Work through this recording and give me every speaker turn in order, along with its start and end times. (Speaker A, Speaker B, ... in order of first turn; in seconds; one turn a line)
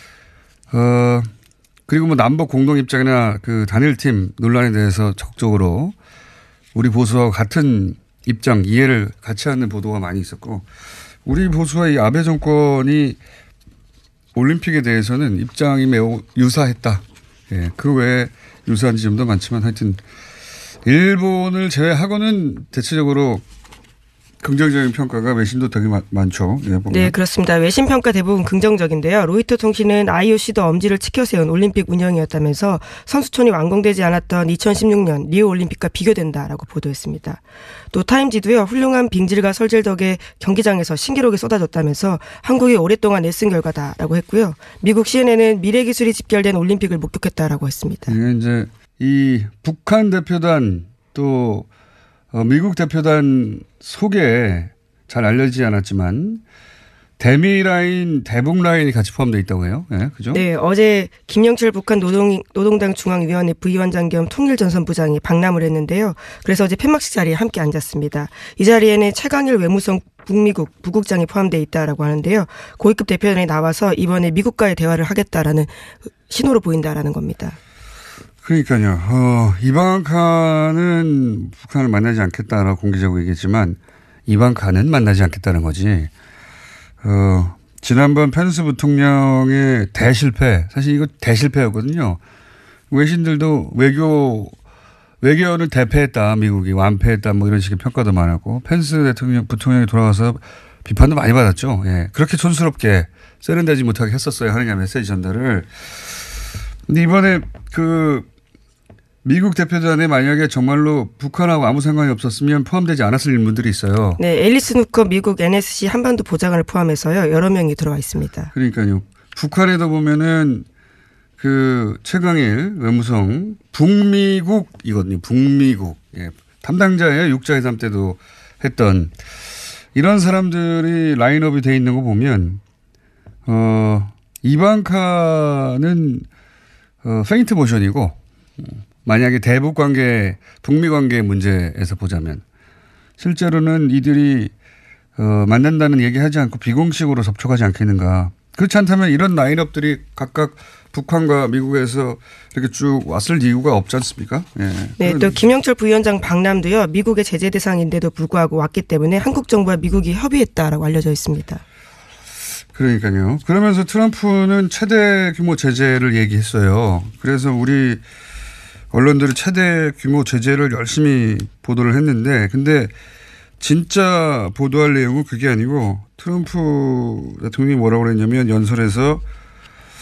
Speaker A: 0.7-1.3
Speaker A: 1.9-5.9
Speaker A: 6.7-10.7
Speaker A: 11.2-13.2
Speaker A: 14.3-20.0
Speaker A: 20.8-23.4
Speaker A: 24.4-27.1
Speaker B: 26.9-37.4
Speaker B: 37.9-48.1
Speaker A: 48.1-51.7
Speaker A: 52.3-56.4
Speaker A: 57.2-60.4
Speaker B: 60.3-75.7
Speaker B: 76.3-77.6
Speaker A: 78.4-86.1
Speaker A: 87.0-92.2
Speaker A: 92.9-94.5
Speaker A: 95.2-105.8
Speaker A: 106.9-108.3
Speaker A: 109.2-114.2
Speaker B: 114.2-118.5
Speaker A: 118.5-120.7
Speaker A: 121.4-129.1
Speaker A: 129.9-132.6
Speaker A: 133.4-136.2
Speaker A: 137.0-142.4
Speaker A: 143.2-144.5
Speaker A: 145.2-155.4
Speaker B: 155.0-161.6
Speaker A: 162.7-168.0
Speaker A: 168.9-172.9
Speaker A: 173.6-179.2